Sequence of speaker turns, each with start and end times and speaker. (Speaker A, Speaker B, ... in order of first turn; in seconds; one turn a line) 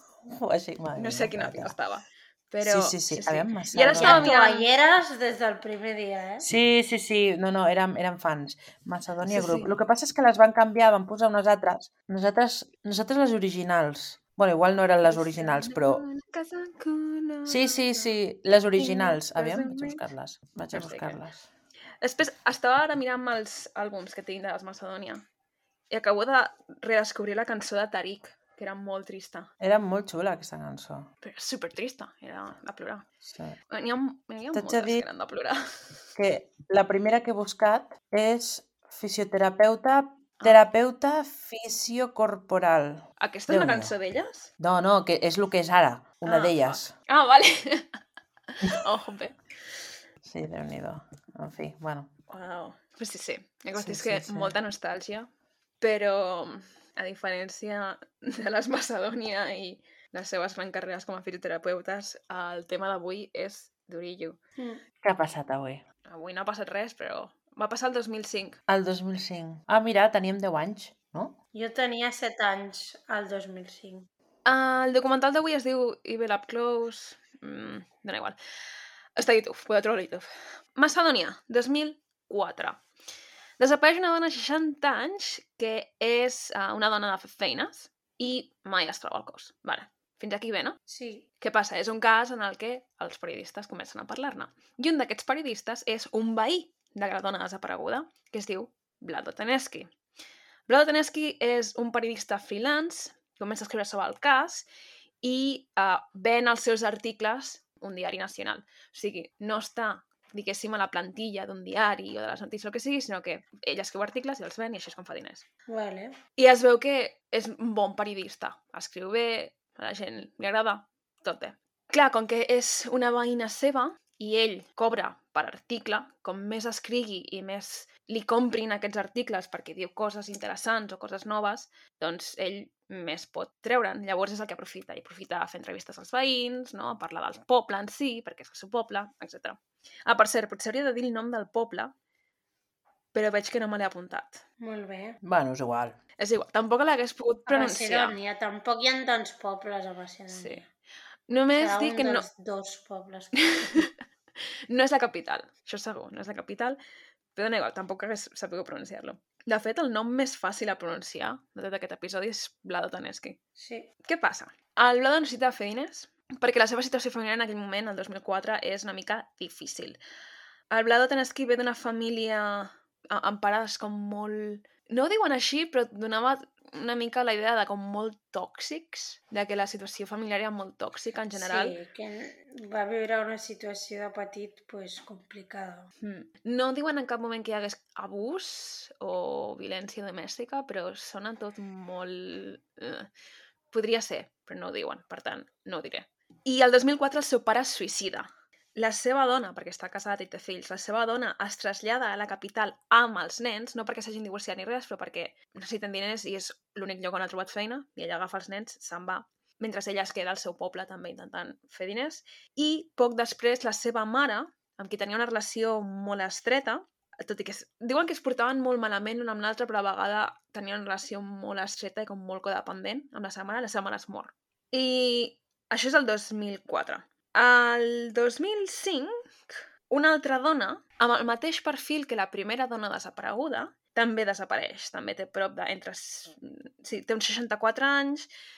Speaker A: 0.2-1.8
Speaker B: 0.9-4.7
Speaker A: 2.6-4.3
Speaker C: 4.0-6.5
Speaker A: 6.4-16.0
Speaker B: 9.3-9.8
Speaker B: 15.1-18.2
Speaker A: 17.5-21.5
Speaker B: 18.8-20.1
Speaker B: 20.7-21.2
Speaker B: 22.0-25.2
Speaker B: 25.9-29.5
Speaker A: 29.6-31.1
Speaker B: 31.2-33.1
Speaker A: 33.3-33.6
Speaker B: 33.7-35.6
Speaker A: 34.5-35.0
Speaker A: 36.2-43.9
Speaker B: 40.4-40.7
Speaker B: 43.2-44.5
Speaker A: 44.6-46.9
Speaker B: 46.2-48.0
Speaker B: 48.6-49.4
Speaker A: 50.2-52.1
Speaker B: 52.3-55.3
Speaker A: 53.8-54.5
Speaker B: 55.8-64.4
Speaker A: 65.0-65.8
Speaker B: 66.1-68.6
Speaker A: 68.7-71.4
Speaker C: 71.5-74.1
Speaker B: 74.5-78.4
Speaker B: 79.2-82.8
Speaker B: 83.6-90.8
Speaker C: 90.9-91.2
Speaker B: 91.4-99.9
Speaker B: 100.7-104.7
Speaker B: 105.2-115.4
Speaker C: 115.7-116.2
Speaker B: 116.4-141.9
Speaker B: 143.1-144.4
Speaker C: 144.6-145.2
Speaker A: 145.2-146.0
Speaker B: 146.2-148.2
Speaker C: 147.5-150.7
Speaker B: 150.3-150.6
Speaker B: 151.3-152.3
Speaker C: 151.6-153.9
Speaker B: 153.6-153.9
Speaker B: 154.7-156.8
Speaker B: 157.3-163.4
Speaker C: 163.6-163.9
Speaker B: 164.1-170.0
Speaker B: 170.7-181.8
Speaker C: 181.3-185.9
Speaker B: 186.0-193.1
Speaker B: 193.7-238.3